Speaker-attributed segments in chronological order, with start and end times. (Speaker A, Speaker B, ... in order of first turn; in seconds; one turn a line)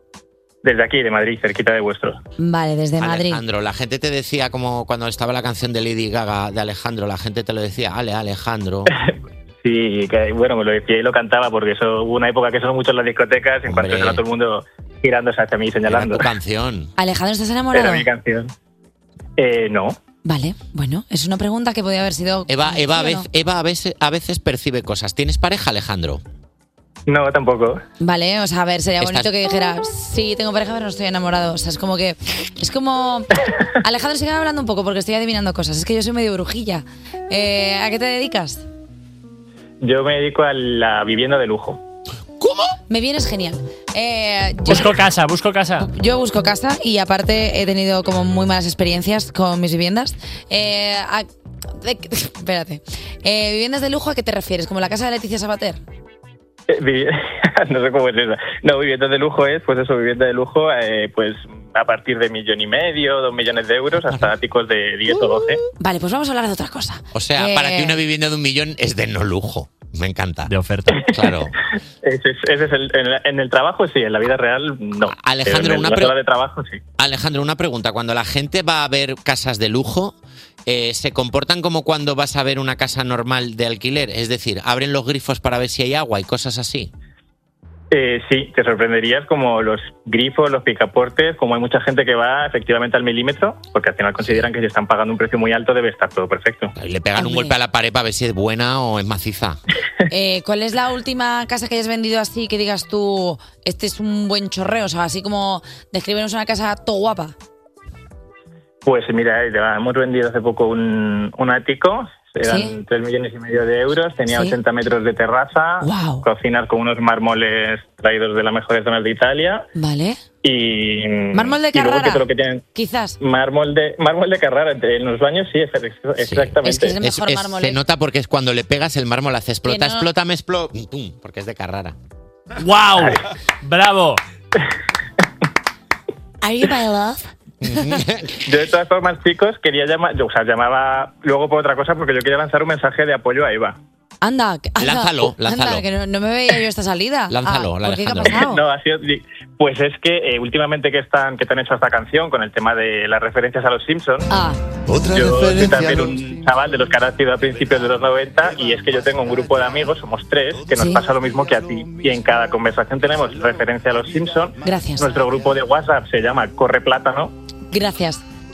Speaker A: 0.6-2.2
Speaker B: 2.4-3.4
Speaker C: 3.0-8.9
Speaker A: 9.6-16.3
Speaker C: 13.7-14.2
Speaker C: 15.9-16.9
Speaker B: 17.0-18.1
Speaker A: 17.7-18.5
Speaker A: 19.4-20.0
Speaker B: 20.2-23.3
Speaker C: 22.5-26.2
Speaker A: 27.1-27.8
Speaker B: 28.0-33.3
Speaker C: 29.0-29.3
Speaker B: 33.8-38.6
Speaker A: 39.8-41.8
Speaker B: 42.9-45.0
Speaker D: 44.7-45.9
Speaker B: 45.8-55.8
Speaker A: 56.7-65.6
Speaker B: 65.8-68.0
Speaker C: 67.1-71.5
Speaker D: 70.5-71.0
Speaker A: 72.0-76.8
Speaker C: 75.0-76.2
Speaker C: 77.0-86.9
Speaker A: 87.9-96.7
Speaker C: 96.8-99.6
Speaker B: 97.2-97.6
Speaker B: 100.1-107.3
Speaker A: 108.8-119.7
Speaker B: 112.4-112.8
Speaker B: 114.3-114.6
Speaker B: 115.8-116.3
Speaker B: 119.8-120.2
Speaker A: 120.4-122.7
Speaker B: 121.3-123.2
Speaker A: 123.2-126.9
Speaker C: 126.2-132.0
Speaker B: 126.6-127.8
Speaker B: 129.7-130.1
Speaker D: 132.6-134.2
Speaker B: 136.4-137.2
Speaker C: 137.6-138.4
Speaker A: 138.4-143.8
Speaker B: 144.2-148.6
Speaker C: 144.8-145.8
Speaker C: 147.3-148.4
Speaker A: 148.3-154.3
Speaker B: 154.3-154.6
Speaker A: 155.1-167.3
Speaker B: 160.8-161.0
Speaker B: 164.6-165.2
Speaker B: 167.7-168.2